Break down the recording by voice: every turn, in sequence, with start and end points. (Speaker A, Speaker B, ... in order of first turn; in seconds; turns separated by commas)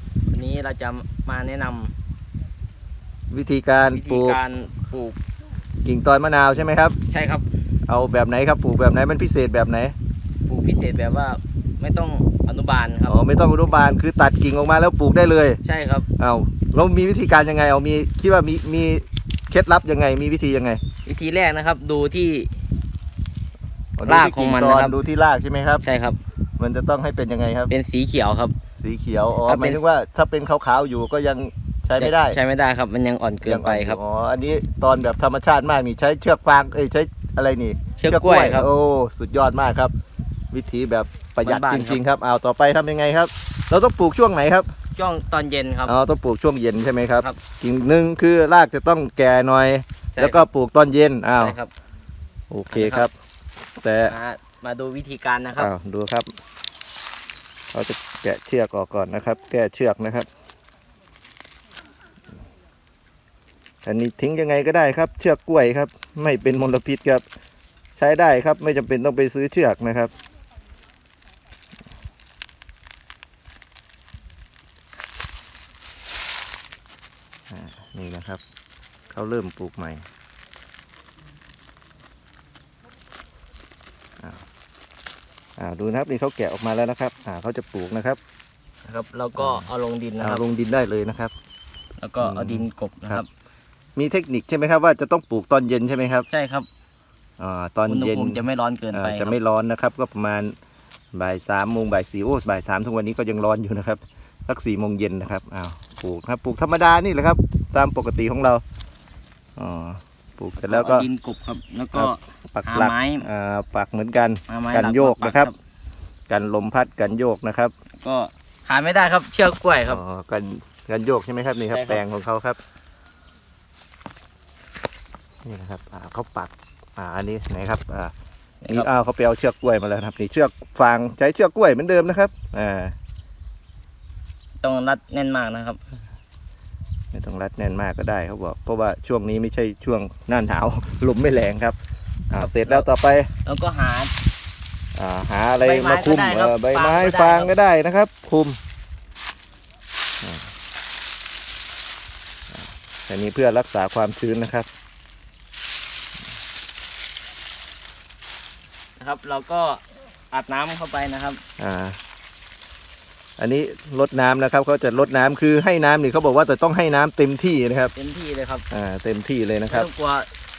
Speaker A: 0.3-1.9, Speaker B: 3.3-4.4, Speaker A: 3.9-5.2, Speaker B: 5.8-7.0, Speaker A: 7.1-7.5, Speaker B: 7.9-9.9, Speaker A: 10.5-13.2, Speaker B: 13.1-15.6, Speaker A: 15.6-16.1, Speaker B: 16.2-20.8, Speaker A: 21.1-22.5, Speaker B: 24.0-25.8, Speaker A: 24.1-25.0, Speaker A: 25.8-26.2, Speaker B: 26.6-27.7, Speaker A: 27.7-28.6, Speaker B: 28.8-32.4, Speaker A: 29.4-29.8, Speaker A: 32.0-34.0, Speaker B: 33.5-39.9, Speaker A: 38.0-38.7, Speaker B: 40.5-44.7, Speaker A: 41.4-42.0, Speaker A: 45.0-45.9, Speaker B: 45.9-51.6, Speaker A: 50.1-50.4, Speaker A: 51.4-51.7, Speaker B: 52.5-53.1, Speaker A: 52.7-53.1, Speaker B: 53.8-54.1, Speaker A: 54.0-55.7, Speaker B: 55.5-56.3, Speaker B: 57.7-60.3, Speaker B: 63.8-67.2, Speaker B: 68.0-70.1, Speaker B: 77.5-78.4, Speaker B: 79.1-80.0, Speaker B: 85.6-88.2, Speaker A: 88.8-90.4, Speaker B: 89.3-89.7, Speaker B: 90.2-91.3, Speaker A: 92.0-93.3, Speaker B: 92.2-93.2, Speaker B: 94.0-96.3, Speaker A: 96.3-96.7, Speaker B: 97.4-98.4, Speaker A: 97.9-99.4, Speaker B: 98.9-100.5, Speaker B: 101.1-108.6, Speaker B: 109.6-111.1, Speaker A: 110.6-113.3, Speaker B: 112.0-115.5, Speaker A: 114.5-115.5, Speaker B: 116.3-117.7, Speaker A: 118.0-120.0, Speaker B: 119.9-122.6, Speaker A: 121.7-122.0, Speaker B: 125.5-128.1, Speaker A: 128.6-128.9, Speaker B: 128.7-132.9, Speaker A: 134.6-135.8, Speaker B: 137.1-141.8, Speaker B: 142.3-143.3, Speaker A: 142.4-142.9, Speaker A: 143.4-144.1, Speaker B: 145.0-148.6, Speaker A: 145.6-147.6, Speaker B: 152.5-154.7, Speaker A: 159.0-161.4, Speaker B: 161.6-162.0, Speaker B: 163.4-167.9, Speaker A: 168.0-168.7, Speaker B: 168.7-169.9, Speaker A: 169.7-170.3